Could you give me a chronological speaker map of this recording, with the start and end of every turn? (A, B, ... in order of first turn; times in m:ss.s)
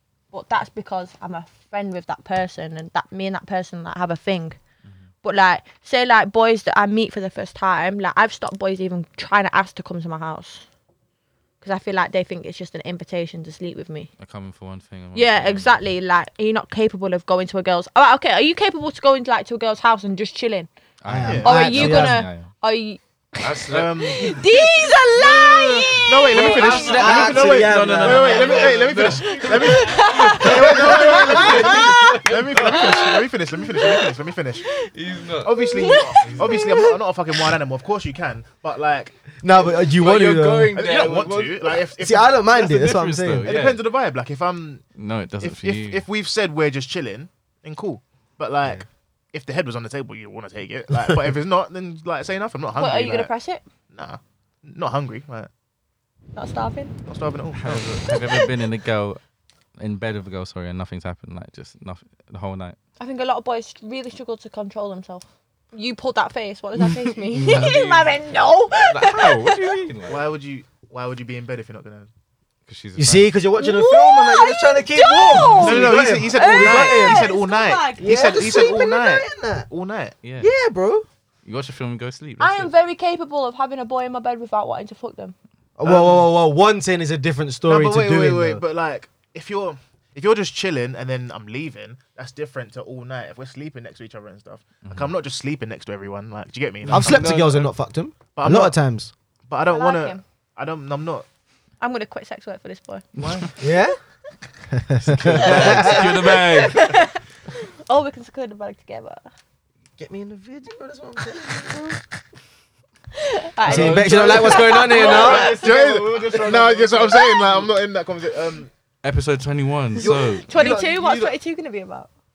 0:00.3-0:04.6 A
0:05.2-0:10.6 A
0:11.6-0:14.1 A
0:14.2-0:15.8 B
0:15.1-0:20.7 A
0:21.0-0:22.5 B
0:21.0-0:22.2 C
0:21.2-0:21.7 D
0:21.4-0:27.1 A
0:23.4-0:24.4 B
0:23.7-0:24.5 D
0:25.1-0:34.8 D
0:26.3-0:33.2 B
0:26.9-0:28.8 C
0:29.3-0:33.1 A
0:31.1-0:31.9 C
0:33.7-0:34.1 A
0:34.6-0:34.9 A
0:34.8-0:36.7 B
0:35.4-0:39.4 D
0:35.6-0:37.4 A
0:39.4-0:40.9 C
0:39.8-0:41.7 B
0:40.7-0:42.9 D
0:42.0-0:43.5 C
0:42.5-0:43.8 B
0:43.4-0:44.9 D
0:45.0-0:46.0 B
0:45.4-0:53.3 D
0:52.8-0:53.6 A
0:53.9-0:55.5 D
0:56.3-0:56.9 A
0:57.0-0:57.9 D
0:57.5-0:59.2 B
0:58.1-0:58.5 A
0:59.8-1:02.8 B
1:03.0-1:09.8 A
1:07.3-1:07.8 C
1:07.4-1:08.2 B
1:08.8-1:10.2 B
1:10.0-1:12.1 D
1:12.7-1:13.3 B
1:13.0-1:17.3 C
1:13.6-1:18.3 A
1:15.6-1:20.2 D
1:18.0-1:19.7 C
1:20.2-1:20.5 B
1:20.4-1:21.1 C
1:21.4-1:22.7 B
1:22.4-1:25.4 A
1:25.8-1:28.6 C
1:25.8-1:26.2 D
1:27.6-1:37.5 D
1:34.8-1:35.1 B
1:36.9-1:37.7 B
1:36.9-1:39.1 C
1:38.3-1:38.8 D
1:39.5-1:41.3 D
1:39.6-1:40.2 A
1:41.8-1:43.0 A
1:43.2-1:43.5 B
1:43.2-1:43.5 D
1:43.6-1:44.0 C
1:44.7-1:46.4 C
1:45.0-1:47.0 B
1:45.4-1:49.3 A
1:50.0-1:52.0 C
1:53.1-1:55.7 A
1:53.6-1:55.4 B
1:53.6-1:57.2 C
1:54.8-1:58.7 D
1:57.1-1:57.5 A
1:59.0-2:00.5 B
2:00.0-2:01.3 C
2:00.0-2:02.1 A